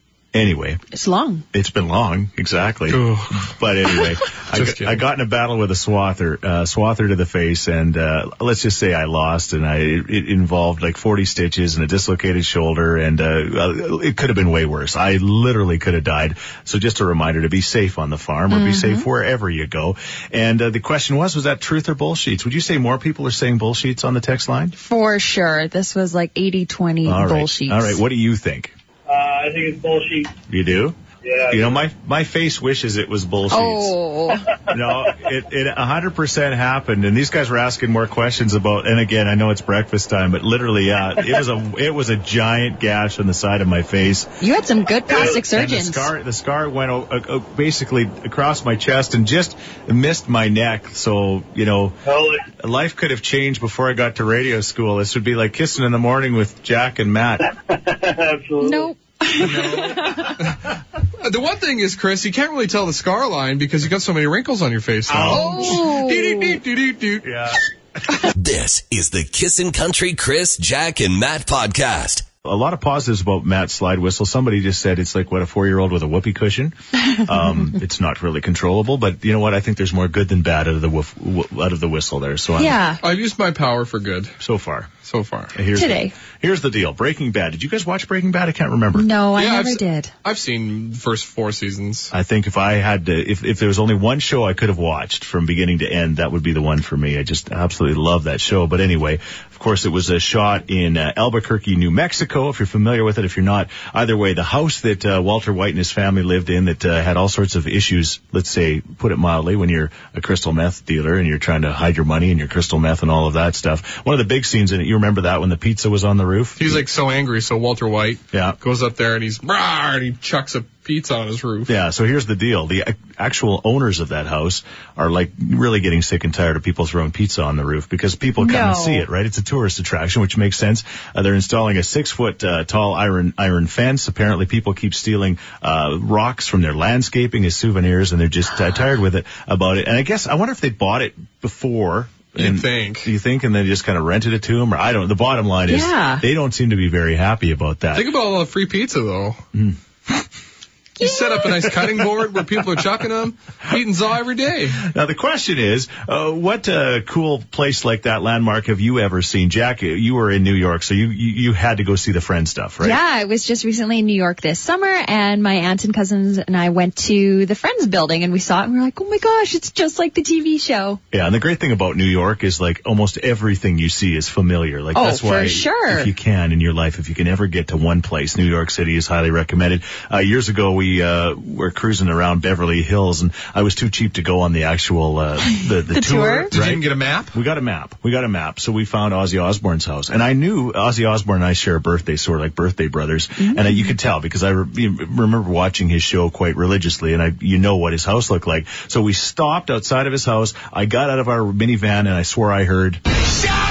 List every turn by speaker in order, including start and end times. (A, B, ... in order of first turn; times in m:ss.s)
0:00.3-0:00.8 A
0:00.9-0:01.4 B
0:01.5-0:24.7 A
0:02.9-0:05.0 C
0:18.5-0:19.0 B
0:24.8-0:28.0 B
0:27.0-0:28.7 A
0:29.1-0:30.3 D
0:30.5-0:31.0 A
0:31.2-0:31.8 D
0:31.5-0:34.0 A
0:33.5-0:34.4 B
0:34.7-0:44.3 A
0:44.4-0:46.1 B
0:45.1-0:45.4 D
0:45.4-0:52.0 A
0:52.1-0:52.4 D
0:52.6-0:57.4 A
0:57.7-0:58.9 D
0:58.6-1:00.3 B
0:59.4-1:00.0 A
0:59.8-1:00.6 C
1:01.2-1:07.3 C
1:05.1-1:05.9 A
1:05.2-1:06.6 B
1:07.2-1:07.6 A
1:08.3-1:12.2 E
1:12.4-1:22.8 A
1:22.6-1:23.0 B
1:23.0-1:24.3 C
1:24.4-1:24.9 A
1:25.0-1:25.5 C
1:25.5-1:29.1 A
1:25.7-1:26.1 B
1:28.9-1:30.1 B
1:29.4-1:32.1 C
1:32.1-1:56.8 A
1:56.6-2:01.7 C
1:58.3-1:58.6 A
2:01.7-2:28.1 A
2:08.4-2:09.0 B
2:22.4-2:23.1 C
2:25.7-2:26.2 B
2:27.9-2:29.4 C
2:29.5-2:30.2 A
2:31.0-2:31.4 B
2:31.0-2:34.8 C
2:31.4-2:32.3 A
2:34.8-2:43.0 A
2:42.8-2:51.0 B
2:51.1-3:23.0 A
2:54.9-2:56.1 B
3:05.9-3:06.5 B
3:06.5-3:07.3 C
3:13.4-3:13.9 B